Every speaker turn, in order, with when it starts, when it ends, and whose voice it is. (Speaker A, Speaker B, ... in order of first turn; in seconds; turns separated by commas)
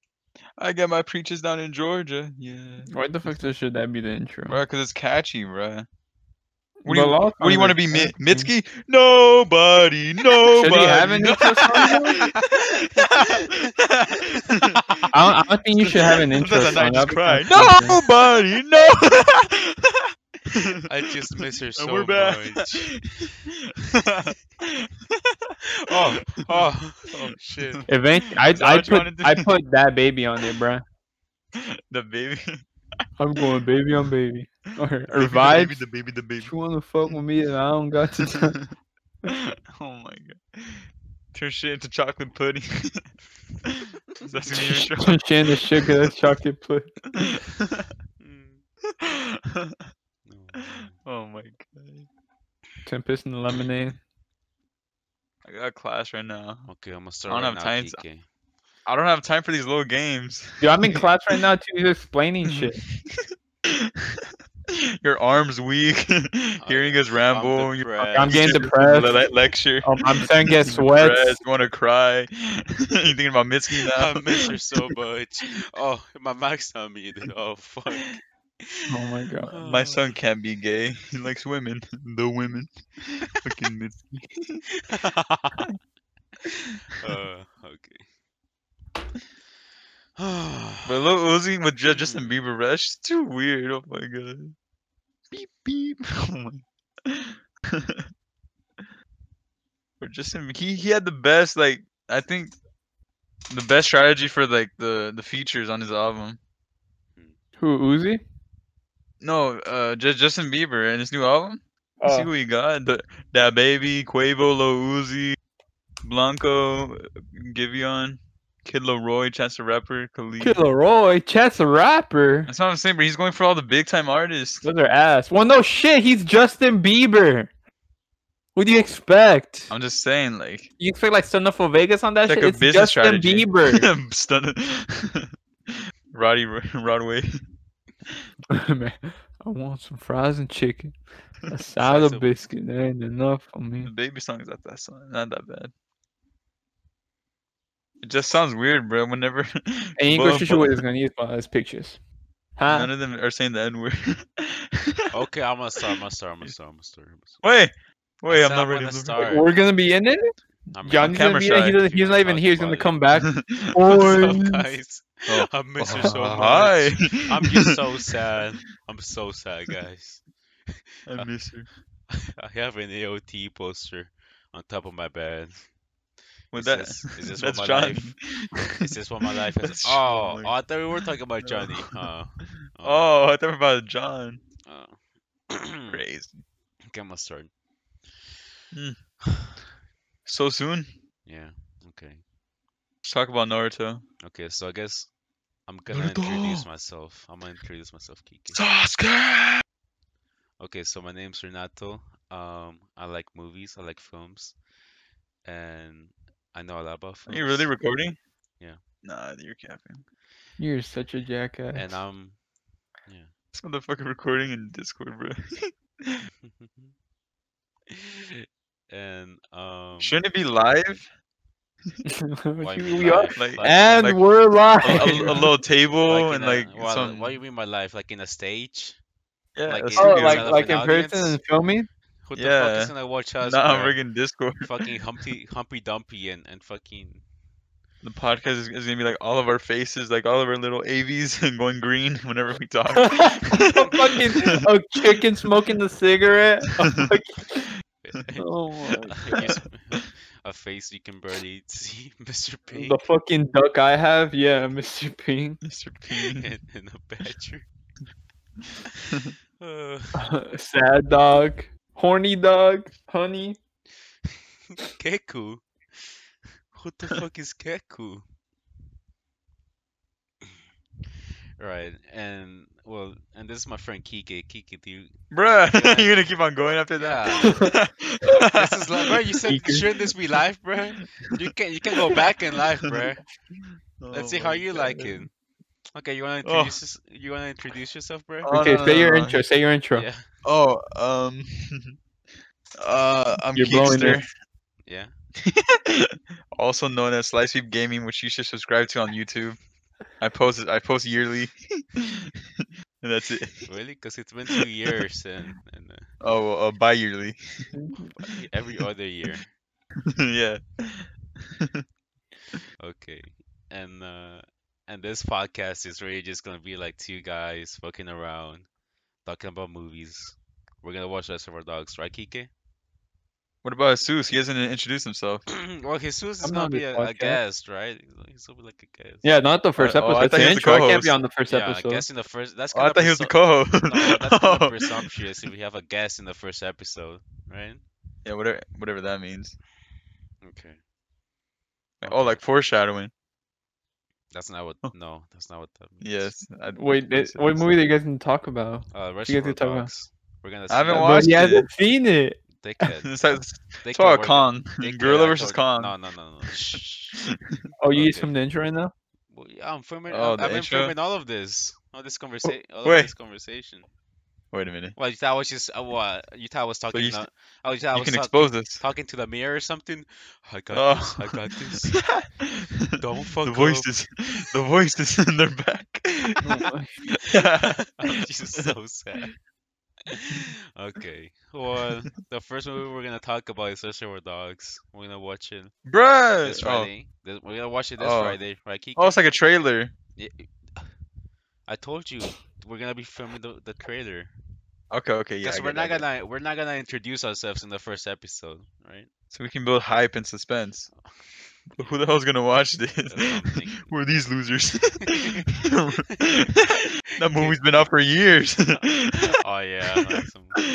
Speaker A: 0.6-2.9, Speaker B: 2.9-4.6, Speaker A: 4.5-5.9, Speaker B: 6.8-8.5, Speaker A: 6.8-14.9, Speaker B: 10.5-12.3, Speaker C: 13.0-13.6, Speaker C: 14.8-15.2, Speaker B: 15.1-18.0, Speaker A: 15.8-19.9, Speaker A: 20.5-20.9, Speaker C: 20.9-22.9, Speaker A: 21.8-24.9, Speaker C: 25.8-27.8, Speaker A: 26.4-27.9, Speaker B: 27.9-30.8, Speaker A: 28.4-29.5, Speaker A: 31.9-32.6, Speaker B: 33.2-35.8, Speaker A: 35.1-37.2, Speaker B: 36.4-38.6, Speaker A: 39.3-43.1, Speaker A: 44.2-45.9, Speaker B: 44.5-47.0, Speaker C: 48.2-48.6, Speaker A: 49.0-49.8, Speaker C: 50.2-50.9, Speaker A: 51.0-52.1, Speaker B: 52.9-54.0, Speaker A: 55.5-56.7, Speaker C: 56.7-58.2, Speaker A: 57.3-58.0, Speaker A: 58.9-61.0, Speaker B: 60.6-62.8, Speaker A: 62.5-63.3, Speaker A: 65.0-74.5, Speaker C: 66.6-68.7, Speaker B: 68.1-69.2, Speaker B: 69.8-71.4, Speaker C: 73.7-80.1, Speaker B: 78.9-79.6, Speaker A: 79.6-84.7, Speaker C: 84.9-85.6, Speaker C: 87.0-88.1, Speaker C: 90.2-91.1, Speaker A: 90.9-94.5, Speaker C: 91.8-92.4, Speaker A: 95.3-98.1, Speaker A: 100.0-102.6, Speaker A: 103.5-106.4, Speaker B: 107.6-108.2, Speaker A: 109.2-115.4, Speaker B: 112.0-112.3, Speaker A: 116.0-120.6, Speaker B: 120.4-122.5, Speaker A: 122.5-124.6, Speaker B: 124.6-127.5, Speaker B: 128.6-129.7, Speaker A: 129.7-130.7, Speaker B: 130.8-133.9, Speaker A: 132.2-135.3, Speaker A: 136.1-137.3, Speaker B: 138.6-143.9, Speaker C: 141.8-142.3, Speaker A: 143.8-145.7, Speaker A: 148.0-150.8, Speaker B: 150.0-152.0, Speaker B: 152.6-152.9, Speaker A: 152.7-155.1, Speaker C: 155.1-157.4, Speaker A: 157.4-159.4, Speaker C: 158.3-159.6, Speaker B: 159.2-164.7, Speaker C: 160.7-163.1, Speaker A: 161.0-161.8, Speaker A: 163.2-163.8, Speaker C: 163.6-170.3, Speaker A: 165.3-167.7, Speaker A: 171.1-171.7, Speaker C: 171.1-171.5, Speaker C: 172.1-175.8, Speaker A: 176.5-178.5, Speaker C: 176.5-183.2, Speaker A: 179.6-181.8, Speaker A: 182.4-184.4, Speaker C: 184.7-185.0, Speaker C: 185.5-186.0, Speaker A: 185.9-186.4, Speaker C: 186.9-187.5, Speaker A: 188.7-189.0, Speaker A: 190.2-190.9, Speaker C: 191.2-192.2, Speaker A: 193.0-194.0, Speaker C: 194.2-198.7, Speaker A: 195.9-196.7, Speaker A: 198.5-199.6, Speaker C: 200.6-204.6, Speaker C: 205.4-207.8, Speaker A: 207.3-208.2, Speaker A: 209.0-210.1, Speaker B: 210.6-211.9, Speaker C: 211.7-212.4, Speaker C: 213.0-213.3, Speaker A: 213.5-216.2, Speaker C: 216.5-216.9, Speaker C: 217.9-220.2, Speaker A: 220.0-221.1, Speaker B: 222.2-225.5, Speaker C: 222.6-224.2, Speaker A: 223.3-224.2, Speaker A: 224.8-227.4, Speaker C: 226.0-229.0, Speaker A: 229.6-230.6, Speaker C: 229.6-231.4, Speaker B: 230.0-231.9, Speaker C: 232.2-234.0, Speaker A: 232.3-234.7, Speaker C: 234.6-237.2, Speaker A: 238.0-244.4, Speaker B: 242.9-247.7, Speaker C: 248.0-253.0, Speaker B: 248.4-249.3, Speaker B: 252.7-255.6, Speaker A: 255.6-256.5, Speaker C: 256.1-257.6, Speaker C: 259.6-260.2, Speaker B: 260.2-263.6, Speaker C: 264.9-268.2, Speaker C: 271.6-276.2, Speaker A: 275.3-279.8, Speaker C: 277.0-277.7, Speaker C: 278.3-283.3, Speaker A: 284.0-285.2, Speaker C: 284.1-285.3, Speaker C: 285.9-288.6, Speaker A: 286.4-286.8, Speaker A: 288.4-289.4, Speaker B: 288.5-290.1, Speaker C: 289.9-290.3, Speaker A: 290.4-292.0, Speaker A: 292.8-294.3, Speaker B: 293.5-294.2, Speaker C: 294.9-295.1, Speaker A: 295.5-299.6, Speaker A: 300.1-302.2, Speaker A: 303.0-303.7, Speaker C: 303.6-306.2, Speaker A: 306.2-307.4, Speaker C: 308.0-309.6, Speaker A: 310.2-311.2, Speaker C: 312.8-318.7, Speaker C: 319.2-322.5, Speaker A: 323.6-325.4, Speaker C: 325.5-329.3, Speaker B: 326.4-327.4, Speaker B: 329.2-332.1, Speaker A: 329.8-331.2, Speaker C: 331.5-337.8, Speaker A: 332.7-334.9, Speaker A: 338.2-339.6, Speaker C: 340.4-340.8, Speaker A: 342.0-343.1, Speaker C: 342.0-342.4, Speaker C: 344.3-346.4, Speaker A: 346.0-347.8, Speaker B: 346.8-349.9, Speaker C: 348.9-351.5, Speaker A: 350.7-351.7, Speaker B: 350.9-352.4, Speaker C: 352.6-353.2, Speaker A: 353.0-355.9, Speaker C: 353.8-357.2, Speaker B: 357.8-358.9, Speaker C: 357.9-358.4, Speaker C: 359.3-363.9, Speaker A: 360.1-360.9, Speaker A: 362.8-363.1, Speaker A: 364.5-364.9, Speaker C: 364.9-372.1, Speaker A: 366.9-367.2, Speaker A: 367.9-368.8, Speaker A: 370.7-372.3, Speaker C: 373.0-373.9, Speaker A: 373.4-376.4, Speaker B: 376.4-377.0, Speaker A: 377.3-377.9, Speaker C: 377.6-379.4, Speaker C: 380.1-385.7, Speaker A: 385.9-386.9, Speaker C: 386.4-389.2, Speaker A: 388.0-388.4, Speaker A: 389.0-389.9, Speaker C: 390.2-390.9, Speaker C: 391.7-394.3, Speaker A: 394.9-396.0, Speaker C: 395.4-399.1, Speaker A: 399.3-400.9, Speaker A: 401.7-409.2, Speaker C: 403.1-404.0, Speaker C: 405.1-405.4, Speaker C: 407.3-407.9, Speaker C: 408.8-410.6